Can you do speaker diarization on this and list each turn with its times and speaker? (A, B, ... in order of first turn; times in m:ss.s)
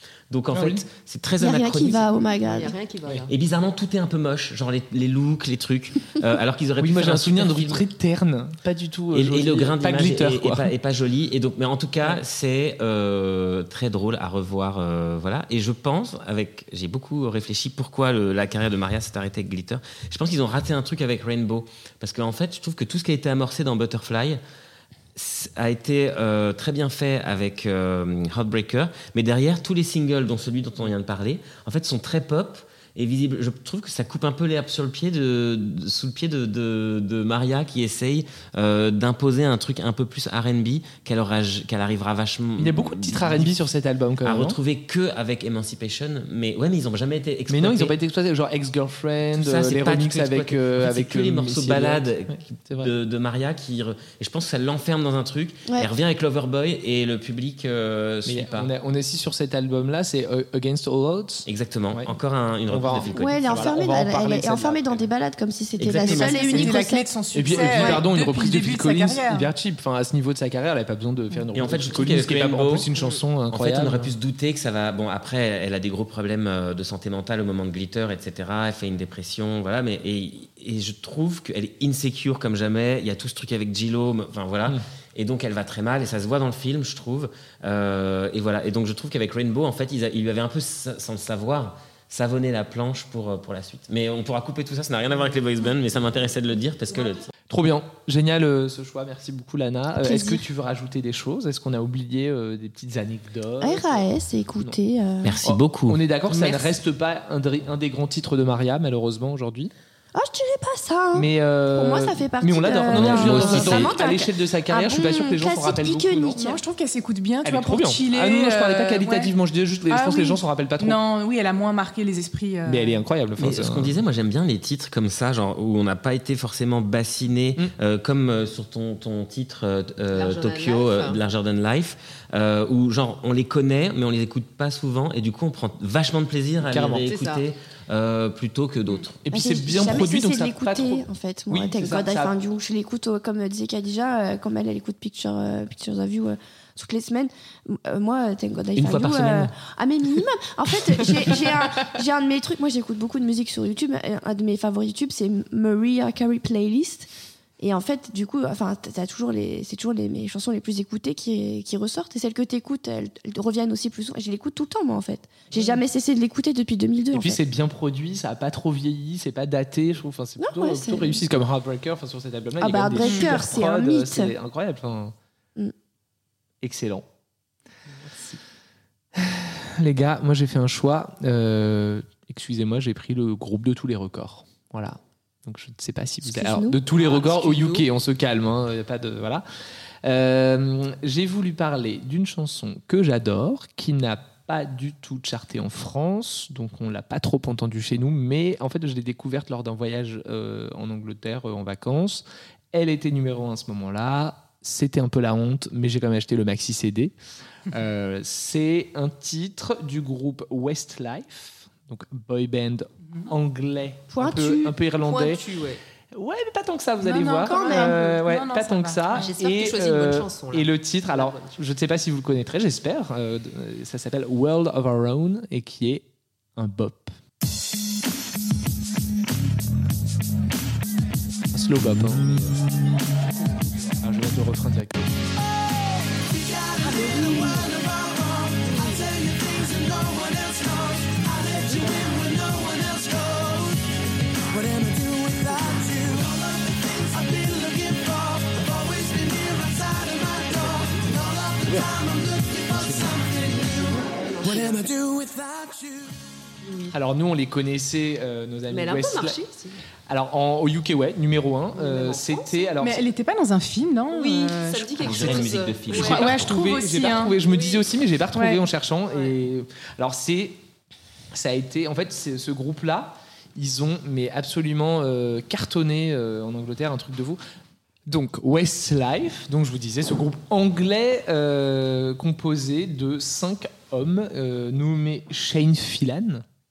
0:00.3-0:02.2 A
0:00.5-0:00.8 B
0:01.4-0:02.7 C
0:02.4-0:03.3 D
0:03.3-0:07.8 A
0:06.8-0:10.7 B
0:09.1-0:24.4 A
0:25.1-0:43.6 A
0:42.6-0:44.6 B
0:44.2-0:48.0 A
0:47.5-0:52.9 B
0:49.4-0:58.7 A
0:58.2-1:02.1 B
1:01.4-1:03.4 A
1:02.7-1:05.1 B
1:03.1-1:08.0 C
1:05.8-1:06.7 A
1:05.8-1:09.5 E
1:07.3-1:14.1 B
1:11.5-1:12.9 A
1:13.5-1:37.3 A
1:37.5-1:44.8 B
1:40.0-1:40.4 C
1:43.6-1:45.4 C
1:45.2-1:46.0 A
1:45.4-1:49.7 B
1:50.1-1:56.6 C
1:51.1-1:56.4 B
1:52.9-1:53.9 A
1:56.3-1:59.3 E
1:57.4-2:01.0 B
1:59.9-2:03.0 E
2:02.6-2:04.0 B
2:03.4-2:19.2 A
2:10.1-2:11.2 D
2:16.6-2:17.1 B
2:17.0-2:17.4 D
2:19.2-2:22.3 B
2:19.3-2:37.1 C
2:28.7-2:29.5 A
2:37.6-2:47.4 C
2:45.5-2:45.8 B
2:47.1-2:55.1 B
2:50.4-2:51.2 C
2:52.6-2:54.3 C
2:53.0-2:53.4 E
2:56.6-2:57.0 B
2:58.0-2:58.4 D
2:59.1-3:09.4 B
3:06.2-3:06.8 C
3:06.9-3:07.8 D
3:10.0-3:27.1 B
3:27.7-3:35.4 B
3:34.1-3:34.7 C
3:35.0-3:35.8 D
3:36.1-3:46.0 B
3:37.0-3:39.3 E
3:37.5-3:38.0 C
3:39.1-3:41.6 D
3:46.6-3:47.1 B
3:51.5-3:52.6 B
3:54.0-3:55.1 B
3:56.1-4:16.2 F
3:56.8-3:57.6 D
3:58.6-3:59.0 D
4:12.7-4:13.7 B
4:13.6-4:14.9 D
4:16.6-4:17.0 D
4:16.9-4:19.4 B
4:18.7-4:19.8 D
4:20.1-4:23.0 B
4:21.7-4:22.7 D
4:22.8-4:25.0 E
4:24.1-4:26.2 D
4:25.0-4:26.6 A
4:25.9-4:27.4 E
4:26.0-4:30.6 B
4:27.4-4:27.8 D
4:28.3-4:28.7 E
4:31.3-4:37.4 B
4:38.1-4:46.4 B